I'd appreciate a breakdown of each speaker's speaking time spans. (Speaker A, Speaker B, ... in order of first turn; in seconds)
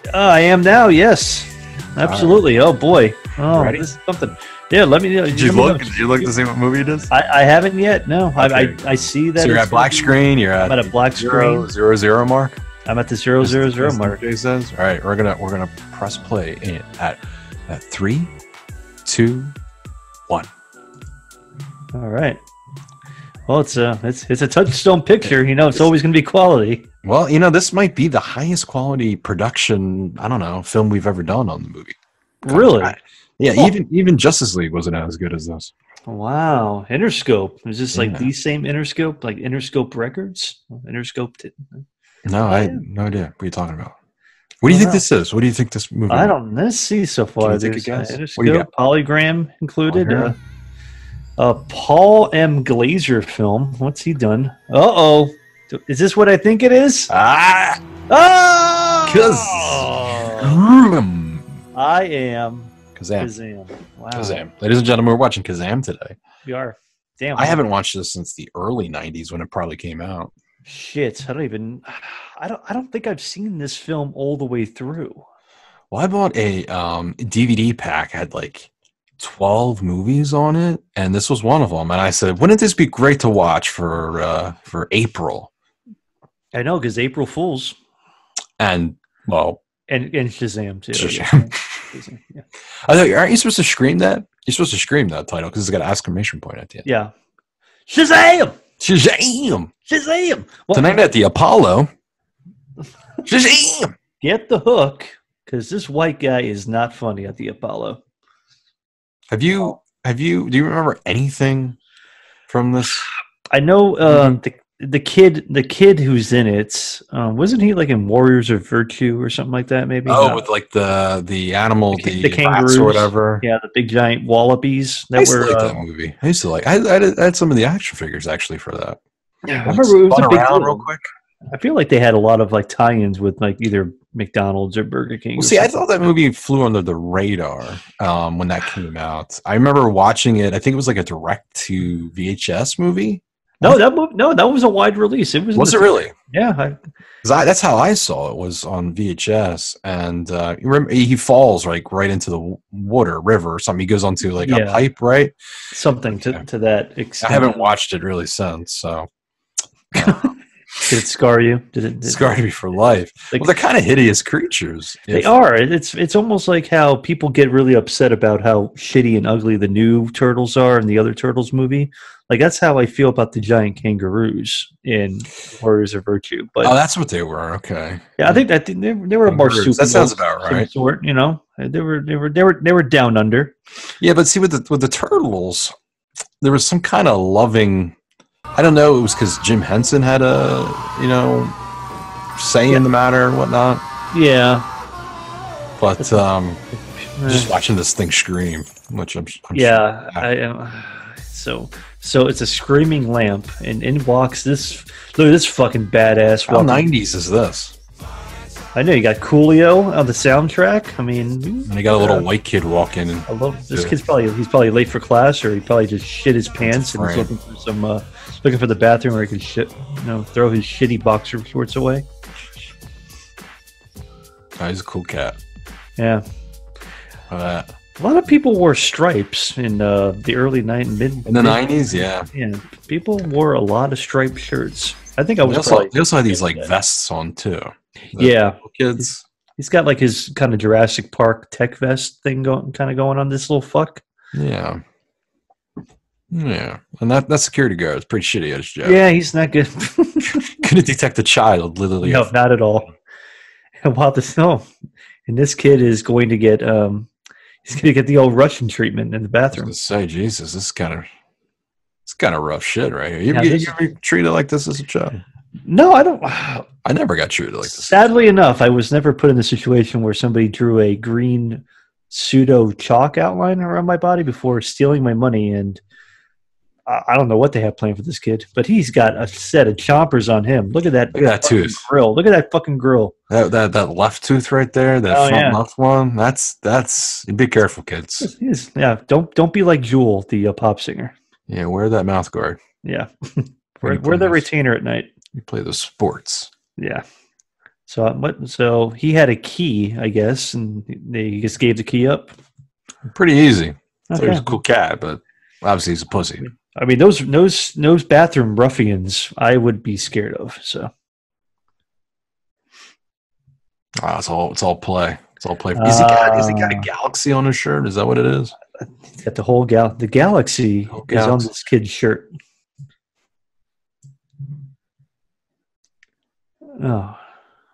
Speaker A: 0.1-6.3, 7.1-11.7, 12.9-14.2, 21.9-22.4, 23.5-26.9, 32.4-33.0, 36.1-41.8, 42.5-42.8, 44.7-45.0, 46.1-50.4, 51.4-57.1, 58.1-60.6, 61.8-64.5, 66.5-67.6, 70.7-75.2, 86.5-87.8, 89.9-92.5, 96.8-97.1, 97.9-98.6, 99.9-101.0, 104.2-108.0, 113.5-120.4, 121.9-125.8, 129.4-130.9, 131.5-135.7, 143.6-146.8, 154.4-154.8, 155.7-157.7, 160.0-160.3, 160.9-162.4, 165.1-176.8, 178.2-183.6, 194.1-194.7, 197.2-197.5, 199.5-206.9, 208.8-212.3, 213.3-222.1, 226.0-226.2, 228.0-231.7, 232.3-236.7, 238.1-239.1, 239.6-244.0, 248.8-250.6, 252.0-252.9, 253.8-254.7, 255.3-257.1, 257.7-259.7, 263.3-263.7, 265.6-266.7, 267.6-275.8, 276.9-283.1, 285.1-285.6, 288.2-291.1, 292.8-295.1, 296.8-297.1, 297.9-302.3, 304.1-304.5, 306.4-310.9, 315.8-316.9, 318.8-322.3, 326.8-327.2
Speaker B: 2.0-2.4, 3.5-4.0, 5.3-7.1, 8.4-8.8, 9.4-12.6, 13.4-18.3, 19.1-19.6, 25.2-25.9, 27.0-35.7, 37.9-38.3, 42.2-44.0, 44.6-46.4, 47.4-48.7, 49.9-50.4, 57.1-57.8, 59.1-61.5, 63.0-63.3, 64.1-66.2, 67.3-70.3, 75.9-85.5, 88.6-89.6, 90.9-91.6, 92.9-96.9, 98.8-99.7, 100.7-101.9, 103.3-104.0, 109.3-111.8, 112.5-113.1, 114.1-114.4, 120.0-123.4, 125.2-129.0, 129.7-131.1, 135.4-143.8, 145.6-146.1, 147.2-155.3, 157.2-159.1, 159.9-160.3, 162.0-165.3, 176.6-178.4, 179.2-180.7, 184.0-185.8, 186.4-188.0, 188.5-191.6, 192.4-193.8, 195.8-196.6, 197.2-200.3, 206.5-207.8, 211.7-214.0, 216.6-217.3, 224.6-225.4, 227.3-227.7, 231.2-232.3, 235.4-239.2, 244.3-244.8, 246.3-249.0, 250.6-252.3, 259.5-261.1, 262.1-265.2, 266.9-267.9, 281.1-281.8, 283.3-288.3, 291.5-292.6, 293.8-294.5, 295.4-296.5, 303.1-306.5, 314.0-318.6, 320.9-321.6